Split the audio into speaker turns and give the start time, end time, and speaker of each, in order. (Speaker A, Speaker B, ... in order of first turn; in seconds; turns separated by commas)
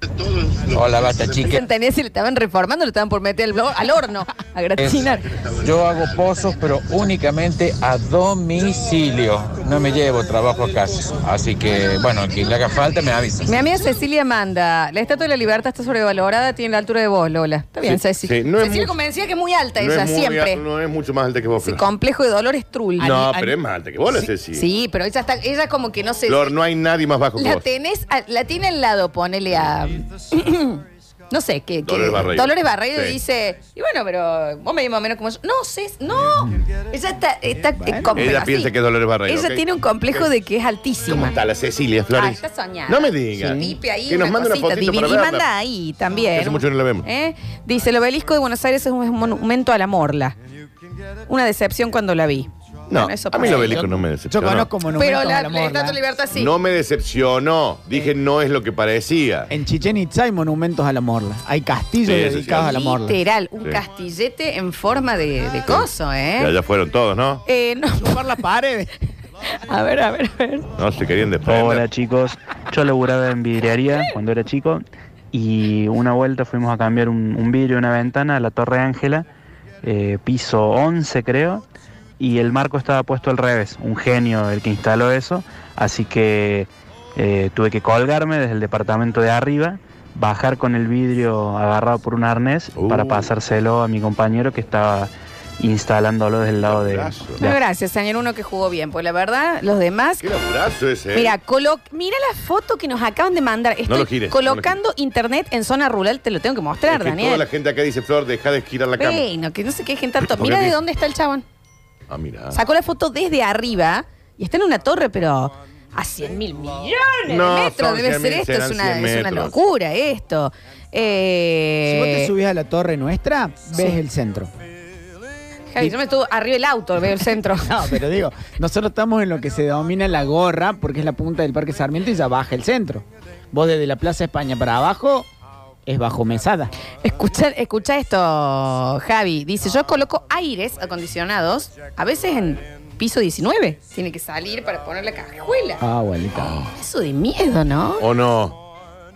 Speaker A: 0.7-1.6, Speaker B: 1.4-5.3, Speaker A: 4.8-5.1, Speaker A: 5.6-13.6, Speaker B: 13.5-20.6, Speaker C: 17.8-18.9, Speaker C: 19.8-21.8, Speaker B: 21.6-23.2, Speaker D: 23.0-23.6, Speaker C: 23.0-24.6, Speaker B: 24.1-26.5, Speaker C: 26.3-27.7, Speaker B: 27.4-38.7, Speaker C: 31.9-33.2, Speaker D: 37.8-38.2, Speaker C: 38.1-40.3, Speaker B: 39.3-41.4, Speaker C: 41.1-45.5, Speaker B: 42.1-50.4, Speaker C: 46.3-47.1, Speaker B: 51.3-53.9, Speaker C: 52.9-54.7, Speaker D: 53.4-56.0, Speaker B: 54.9-56.5, Speaker C: 56.3-59.5, Speaker D: 59.5-63.2, Speaker C: 62.0-62.7, Speaker B: 62.4-66.5, Speaker C: 65.7-67.4, Speaker B: 67.5-68.3, Speaker D: 68.0-68.9, Speaker B: 69.7-70.7, Speaker C: 70.8-71.8, Speaker E: 71.4-79.3, Speaker E: 79.8-81.6, Speaker E: 82.2-97.6, Speaker C: 92.8-93.3, Speaker C: 96.6-97.4, Speaker B: 97.4-100.2, Speaker C: 100.2-101.3, Speaker B: 101.1-107.4, Speaker C: 103.9-104.8, Speaker C: 106.9-109.3, Speaker B: 109.0-111.4, Speaker C: 110.2-110.8, Speaker C: 112.1-112.6, Speaker B: 112.5-122.3, Speaker C: 117.3-119.5, Speaker D: 121.8-124.5, Speaker B: 125.7-127.8, Speaker D: 127.6-135.3, Speaker D: 135.9-136.7, Speaker B: 137.0-145.8, Speaker D: 145.8-146.6, Speaker C: 146.4-146.7, Speaker B: 146.7-148.0, Speaker C: 148.0-148.6